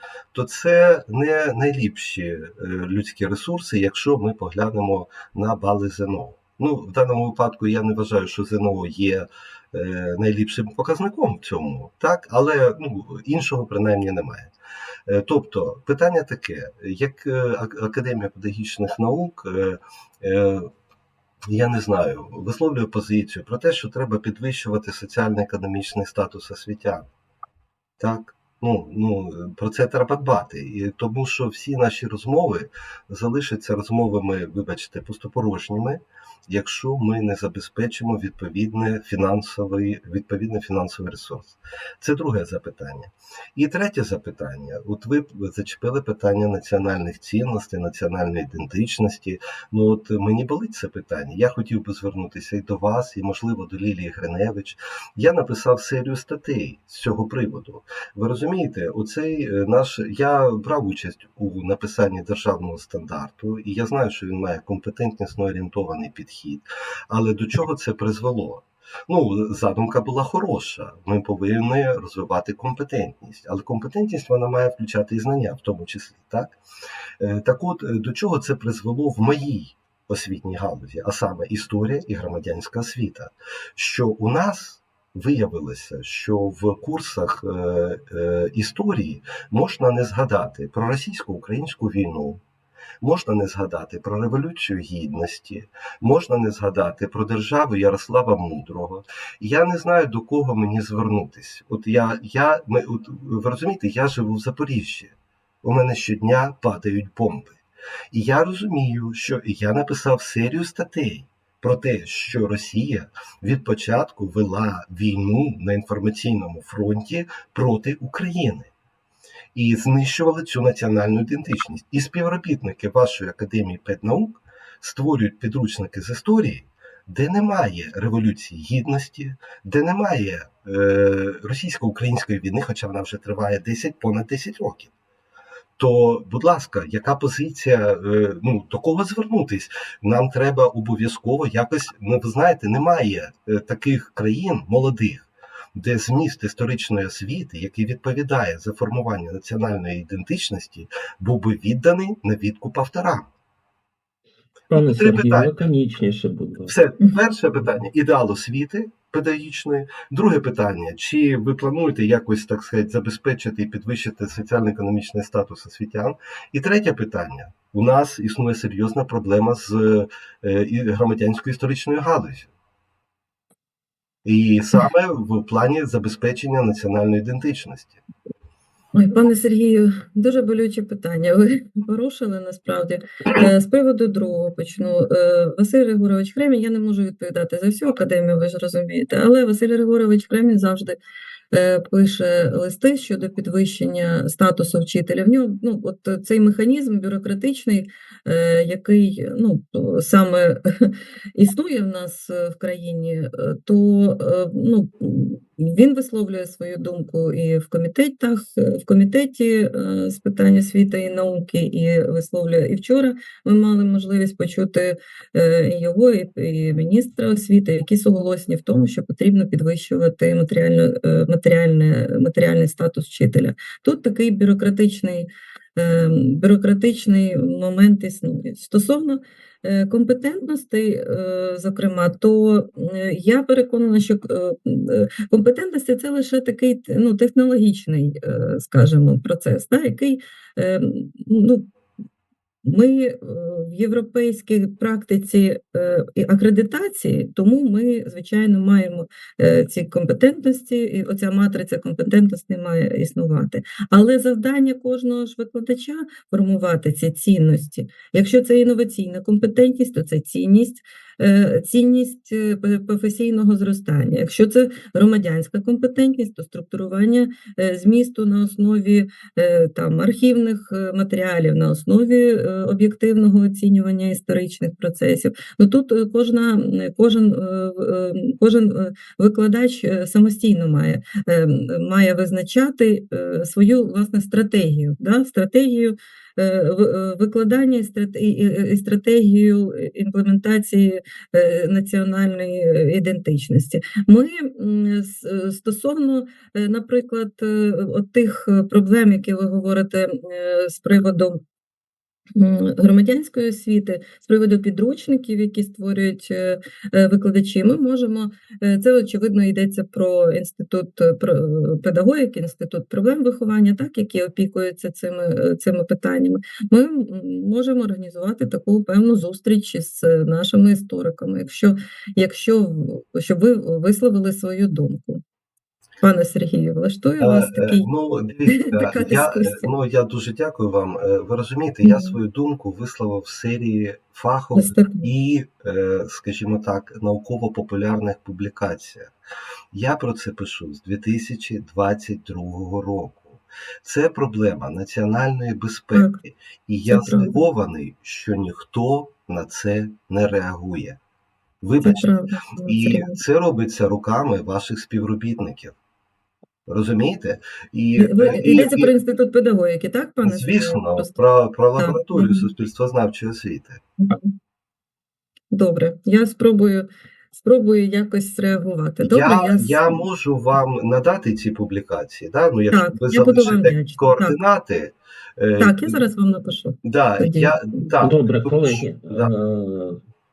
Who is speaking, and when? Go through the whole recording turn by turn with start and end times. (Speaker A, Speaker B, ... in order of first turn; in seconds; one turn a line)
Speaker A: 0.3-14.5
Speaker A: 15.1-20.7
Speaker A: 21.5-27.1
Speaker A: 28.0-76.6
Speaker A: 77.2-92.4
Speaker A: 93.0-107.6
Speaker A: 108.1-118.7
Speaker A: 119.5-134.9
Speaker A: 135.8-153.3
Speaker B: 154.7-156.7
Speaker A: 154.7-155.7
Speaker A: 156.7-172.5
Speaker A: 174.2-178.0
Speaker C: 178.9-191.0
Speaker C: 191.5-241.7
Speaker C: 242.6-301.4
Speaker C: 302.4-325.2
Speaker C: 326.0-327.9
Speaker A: 327.2-339.1
Speaker C: 328.5-329.7
Speaker C: 331.8-332.2
Speaker C: 334.5-335.1
Speaker A: 339.7-351.0
Speaker C: 346.9-347.3
Speaker A: 351.6-352.1
Speaker C: 351.8-353.2
Speaker A: 352.6-355.8
Speaker A: 356.6-358.9
Speaker C: 358.0-362.4
Speaker A: 360.2-363.8
Speaker C: 364.0-364.3
Speaker C: 365.5-370.0
Speaker A: 369.0-376.0
Speaker C: 372.7-374.4
Speaker C: 375.6-377.9
Speaker A: 376.8-379.3
Speaker B: 378.0-380.0